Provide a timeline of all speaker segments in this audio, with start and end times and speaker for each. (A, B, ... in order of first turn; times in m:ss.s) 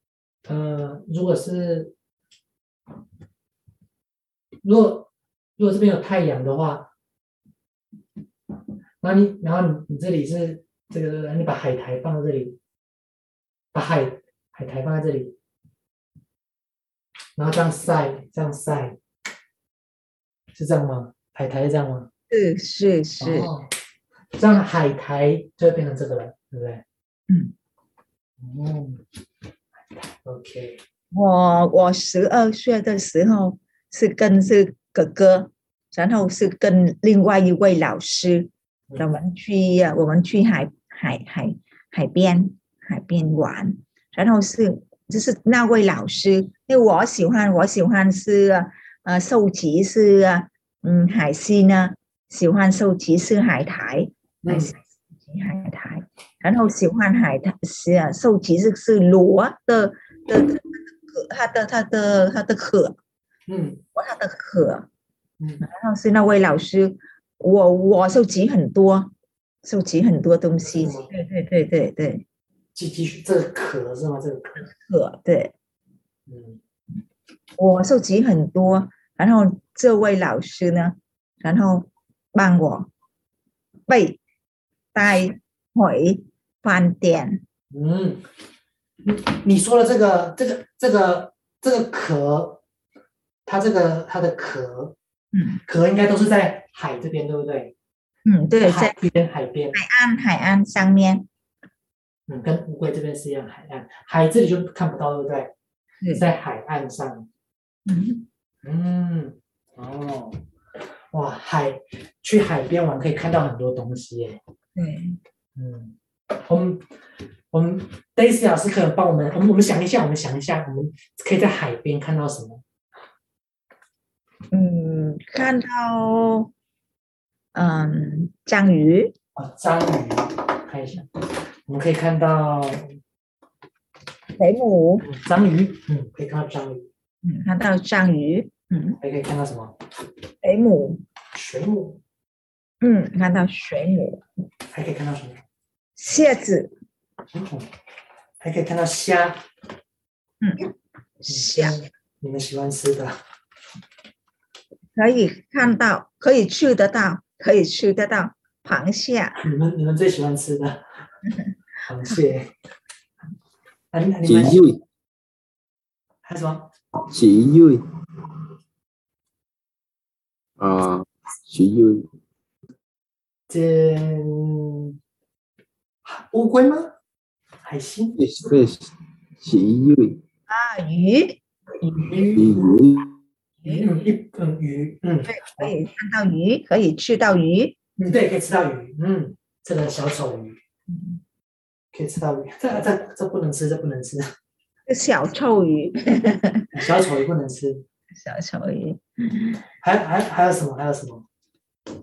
0:00.5-0:01.9 A
0:04.6-0:06.9 A
0:09.0-0:12.6 A
0:13.7-0:15.3 A
0:17.4-0:19.0 A
0:20.5-0:22.1 A
0:22.3-0:23.5 B
0:23.2-0:23.7 A
0:24.3-0:26.8 A
0:28.4-0:29.0 A
0:29.9-0:30.8 A
0:31.1-1:03.0 B
0:54.4-0:54.7 A
1:03.5-1:03.8 A
1:03.9-1:04.8 B
1:05.4-1:05.6 A
1:05.6-1:09.1 B
1:09.6-1:12.2 B
1:10.6-1:11.1 A
1:12.7-1:14.7 A
1:14.6-1:15.5 B
1:16.3-1:16.6 A
1:17.6-1:22.9 B
1:23.9-1:24.2 B
1:24.9-1:27.4 B
1:27.7-1:28.2 A
1:29.0-1:32.6 A
1:33.4-1:34.9 A
1:35.3-1:35.6 B
1:35.6-1:37.7 A
1:38.2-1:39.0 B
1:38.6-1:39.8 A
1:39.7-1:41.2 B
1:42.3-1:45.5 A
1:46.1-1:47.3 A
1:47.8-1:48.2 B
1:48.6-1:50.4 A
1:51.1-1:54.4 A
1:54.8-1:55.2 B
1:55.6-1:56.9 A
1:57.5-2:02.6 A
2:04.5-2:06.5 B
2:07.5-2:09.1 B
2:09.3-2:11.1 A
2:11.6-2:13.0 A
2:14.4-2:15.1 B
2:15.0-2:16.9 A
2:17.2-2:19.0 B
2:19.0-2:19.8 A
2:20.4-2:21.0 B
2:21.3-2:22.0 A
2:22.8-2:24.2 B
2:24.7-2:25.4 A
2:26.0-2:26.7 B
2:27.3-2:27.7 A
2:28.4-2:29.4 A
2:30.4-2:30.7 B
2:31.2-2:31.8 B
2:31.3-2:33.2 A
2:34.9-2:39.4 B
2:39.4-2:40.8 A
2:41.8-2:42.5 A
2:43.9-2:44.6 A
2:44.2-2:44.8 C
2:46.2-2:46.7 A
2:47.1-2:47.8 C
2:50.6-2:52.1 C
2:53.5-2:55.0 A
2:56.0-2:56.9 A
2:57.6-2:58.2 A
2:58.2-3:00.2 C
3:00.5-3:02.4 B
3:02.3-3:03.2 C
3:03.6-3:03.9 B
3:03.6-3:05.7 A
3:05.3-3:07.8 B
3:08.0-3:10.6 A
3:10.9-3:11.2 B
3:11.9-3:14.3 A
3:14.9-3:16.7 B
3:16.7-3:17.8 A
3:18.1-3:19.6 B
3:19.8-3:21.2 A